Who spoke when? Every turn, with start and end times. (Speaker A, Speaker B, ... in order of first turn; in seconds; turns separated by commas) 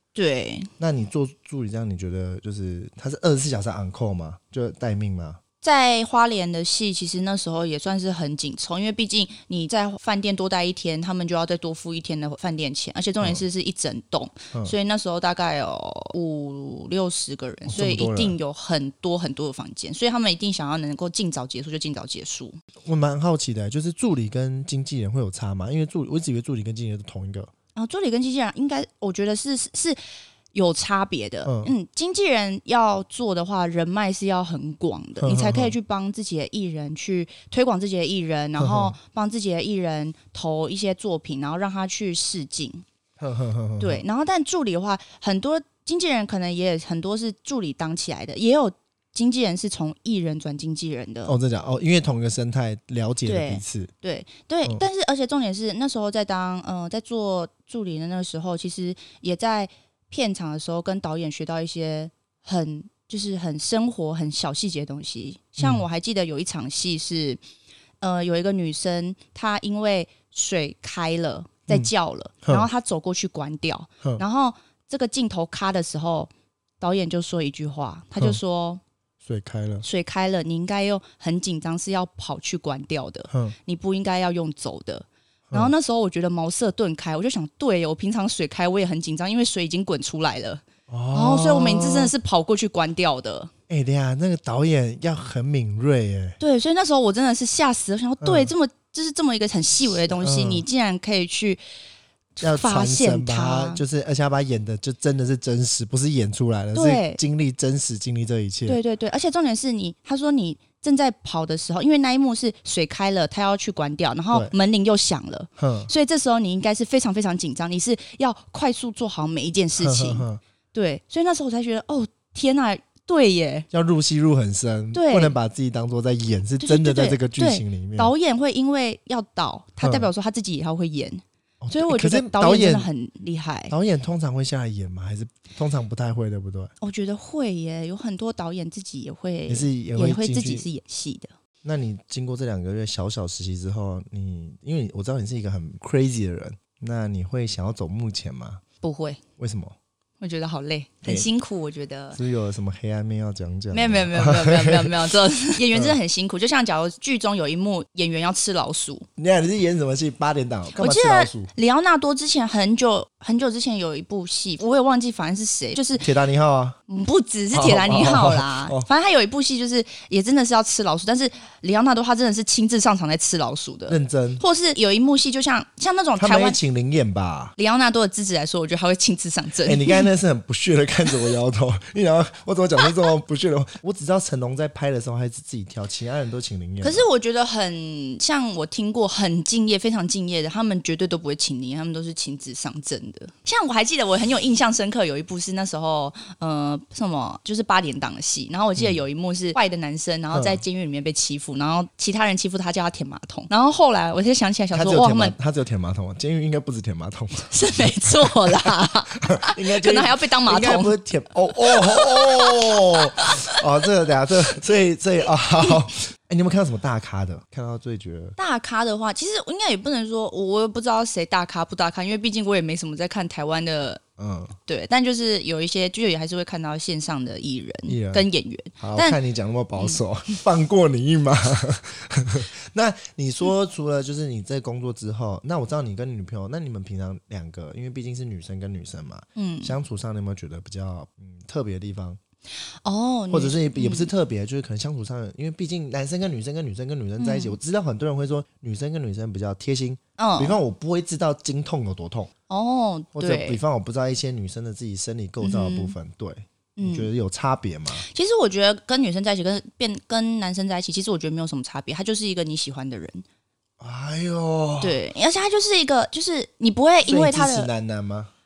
Speaker A: 0.1-0.7, Speaker B: 0.8-5.4, Speaker A: 5.6-22.6, Speaker B: 17.7-18.4, Speaker B: 22.9-27.5, Speaker A: 27.8-30.0, Speaker A: 30.5-42.9, Speaker B: 31.4-31.7, Speaker B: 35.2-35.7, Speaker B: 38.6-39.0, Speaker B: 43.2-44.0, Speaker A: 43.8-51.4, Speaker B: 51.3-53.9, Speaker A: 53.2-67.4, Speaker B: 65.6-65.8, Speaker A: 68.0-78.8, Speaker B: 79.2-79.8, Speaker A: 79.8-93.5, Speaker B: 83.3-83.6, Speaker B: 90.9-92.1, Speaker B: 93.7-96.4, Speaker A: 96.4-101.6, Speaker B: 98.2-98.5, Speaker B: 100.2-100.6, Speaker A: 102.4-103.8, Speaker B: 102.4-108.8, Speaker A: 106.7-107.2, Speaker A: 108.7-123.7, Speaker B: 115.6-115.9, Speaker B: 119.8-120.4, Speaker B: 123.7-128.1, Speaker A: 124.9-125.3, Speaker A: 126.6-133.7, Speaker B: 129.8-130.1, Speaker B: 131.6-132.9, Speaker B: 133.7-136.7, Speaker A: 136.8-141.3, Speaker B: 139.5-140.7, Speaker B: 141.6-148.6, Speaker A: 148.8-149.2, Speaker B: 149.4-149.8, Speaker A: 150.2-152.2, Speaker B: 152.1-155.0, Speaker A: 153.7-159.1, Speaker B: 155.7-156.0, Speaker B: 159.2-161.5, Speaker A: 160.8-166.1, Speaker B: 166.0-166.8, Speaker A: 166.9-176.6, Speaker B: 167.5-168.9, Speaker B: 173.9-174.4, Speaker B: 176.2-177.5, Speaker A: 177.6-180.1, Speaker B: 179.6-187.0, Speaker A: 186.8-205.3, Speaker B: 200.3-200.6, Speaker B: 204.7-208.7, Speaker A: 207.5-210.9, Speaker B: 209.2-218.4, Speaker A: 211.7-213.5, Speaker A: 218.4-224.0, Speaker B: 224.2-224.5, Speaker A: 224.7-229.2, Speaker B: 227.9-228.3, Speaker B: 228.8-242.2, Speaker A: 239.4-239.7, Speaker A: 242.8-244.1, Speaker B: 243.3-252.3, Speaker A: 247.2-247.6, Speaker A: 250.2-250.6, Speaker A: 252.5-253.6, Speaker B: 253.2-258.1, Speaker A: 255.4-256.0, Speaker A: 256.8-257.1, Speaker A: 258.0-263.2, Speaker B: 263.8-265.0, Speaker A: 264.8-267.7, Speaker B: 267.1-268.3